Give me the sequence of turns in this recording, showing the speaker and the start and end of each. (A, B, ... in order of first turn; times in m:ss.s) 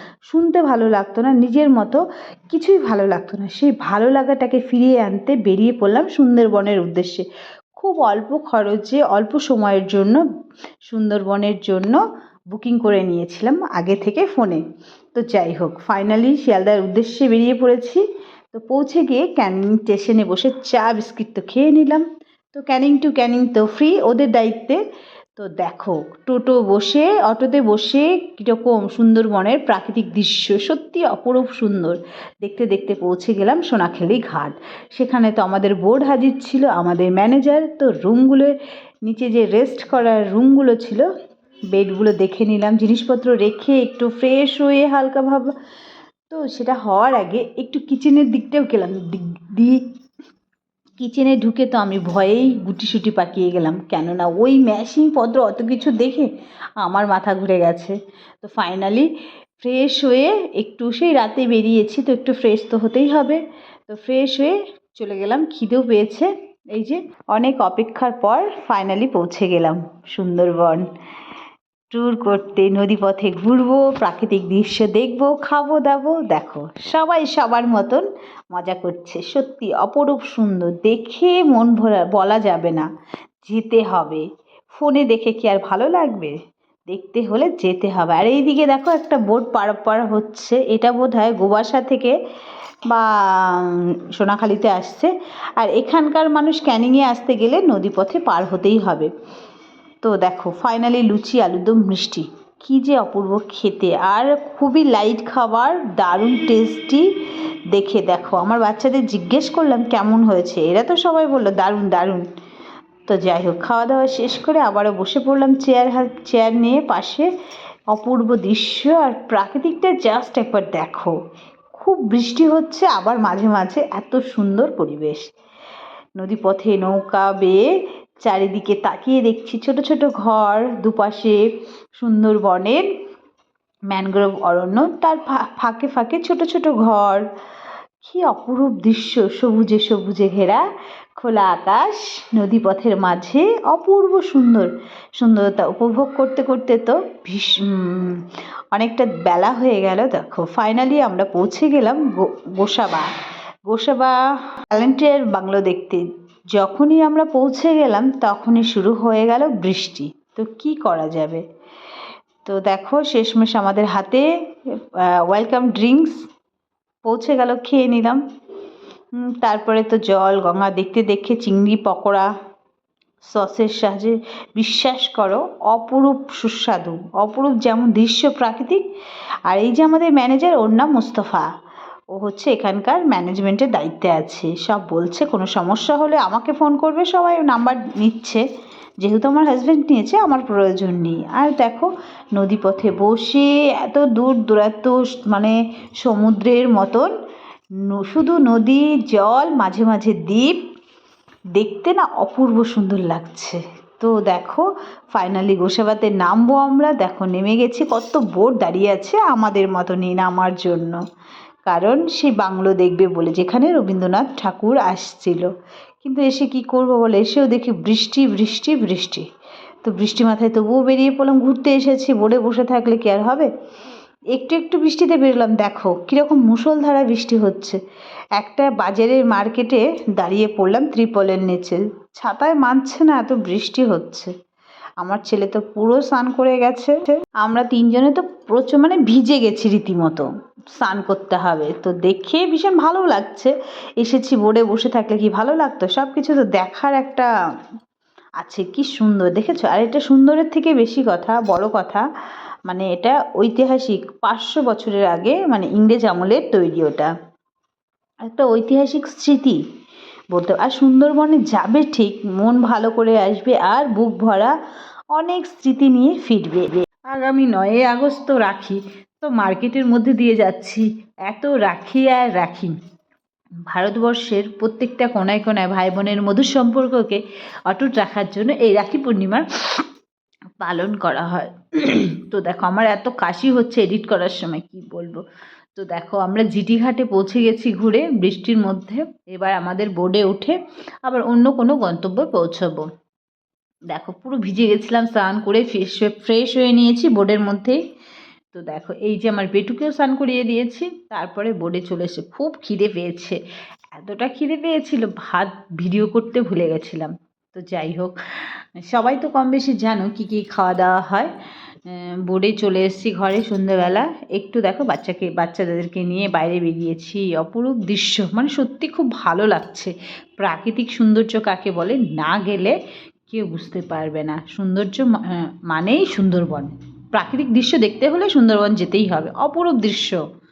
0:00.3-0:07.2 A
0:07.8-0:10.2 A
0:10.9-0:12.0 A
0:12.5-0:14.6 A
0:15.1-0:18.0 A
0:18.5-0:24.8 A
0:25.4-0:38.5 A
0:39.0-0:41.0 A
0:41.7-0:45.5 A
0:46.3-0:49.8 A
0:51.0-0:56.3 A
0:56.8-0:59.1 A
0:59.6-1:10.8 A
1:11.9-1:22.9 A
1:23.4-1:26.3 A
1:26.9-1:32.2 A
1:32.9-1:39.1 A
1:40.0-1:47.0 A
1:47.7-1:52.2 A
1:53.1-1:57.3 A
1:57.9-2:01.1 A
2:01.7-2:05.2 A
2:06.2-2:07.7 A
2:08.2-2:11.4 A
2:12.0-2:12.8 A
2:13.9-2:17.2 A
2:18.0-2:20.6 A
2:21.2-2:28.2 A
2:28.7-2:33.1 A
2:33.7-2:41.4 A
2:42.4-2:44.2 A
2:45.2-2:46.2 A
2:47.0-2:48.2 A
2:49.2-2:52.3 A
2:53.3-2:58.8 A
2:59.5-3:01.4 A
3:02.1-3:08.4 A
3:09.0-3:17.1 A
3:17.9-3:20.6 A
3:21.6-3:31.0 A
3:31.7-3:35.5 A
3:36.0-3:39.2 A
3:39.8-3:43.5 A
3:44.3-3:47.8 A
3:48.4-3:54.3 A
3:55.0-4:07.3 A
4:08.4-4:12.0 A
4:12.7-4:17.1 A
4:18.3-4:19.6 A
4:20.3-4:24.5 A
4:25.1-4:32.7 A
4:33.7-4:39.4 A
4:40.6-4:45.2 A
4:45.8-4:52.9 A
4:53.9-4:57.8 A
4:58.5-5:03.4 A
5:04.0-5:08.2 A
5:08.9-5:11.3 A
5:11.9-5:22.8 A
5:23.3-5:30.2 A